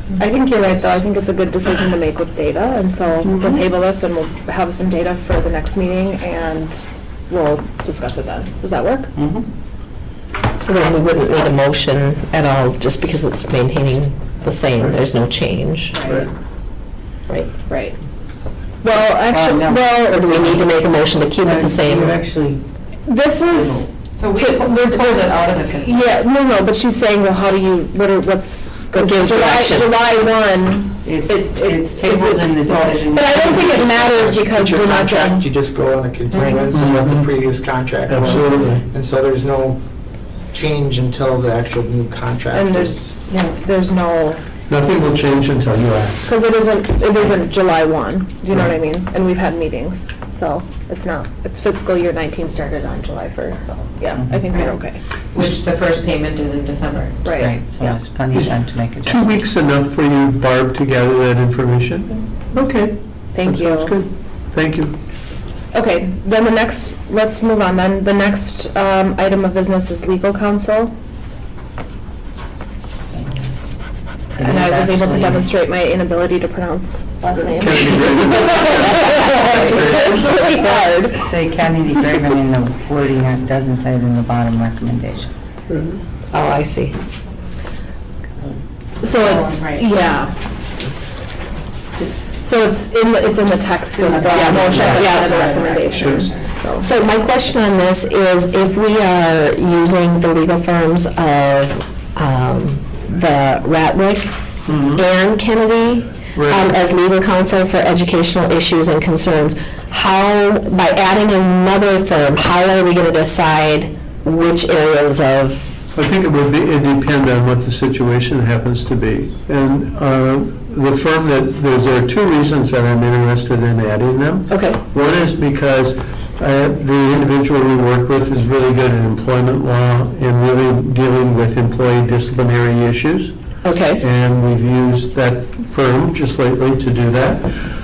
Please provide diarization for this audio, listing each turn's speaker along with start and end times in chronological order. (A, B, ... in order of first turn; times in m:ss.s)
0:00.2-0:09.1 A
0:09.2-0:09.5 B
0:10.6-0:16.0 C
0:15.9-0:16.3 D
0:16.0-0:16.3 E
0:17.7-0:18.0 A
0:18.8-0:20.1 A
0:18.9-0:20.6 B
0:19.8-0:22.2 C
0:21.4-0:22.6 B
0:23.1-0:35.4 A
0:23.5-0:23.9 B
0:24.2-0:26.0 D
0:28.9-0:29.9 C
0:31.0-0:34.1 B
0:32.7-0:39.8 F
0:36.4-0:36.6 A
0:36.7-0:37.1 B
0:36.7-0:37.2 E
0:38.1-0:38.8 E
0:40.5-0:43.2 F
0:42.5-0:44.4 A
0:44.7-0:46.3 E
0:46.3-0:55.0 A
0:54.5-0:54.8 D
0:55.3-0:57.2 D
0:57.2-0:57.6 A
0:57.3-0:59.4 B
0:58.3-1:05.0 E
1:03.3-1:03.9 A
1:05.7-1:10.9 A
1:13.1-1:13.5 B
1:14.3-1:15.5 B
1:14.4-1:21.3 A
1:17.5-1:19.0 E
1:19.6-1:20.2 E
1:19.6-1:25.3 B
1:25.7-1:26.0 E
1:26.3-1:27.0 C
1:29.0-1:30.3 A
1:29.2-1:30.1 D
1:32.4-1:36.9 A
1:34.0-1:35.7 B
1:34.2-1:35.0 D
1:34.3-1:35.9 C
1:34.7-1:35.2 E
1:35.8-1:36.3 E
1:36.8-1:44.4 C
1:44.6-1:45.1 E
1:44.9-1:55.8 C
1:46.3-1:46.7 E
1:55.9-2:13.3 E
2:04.5-2:04.8 C
2:13.6-2:14.0 C
2:14.0-2:17.5 E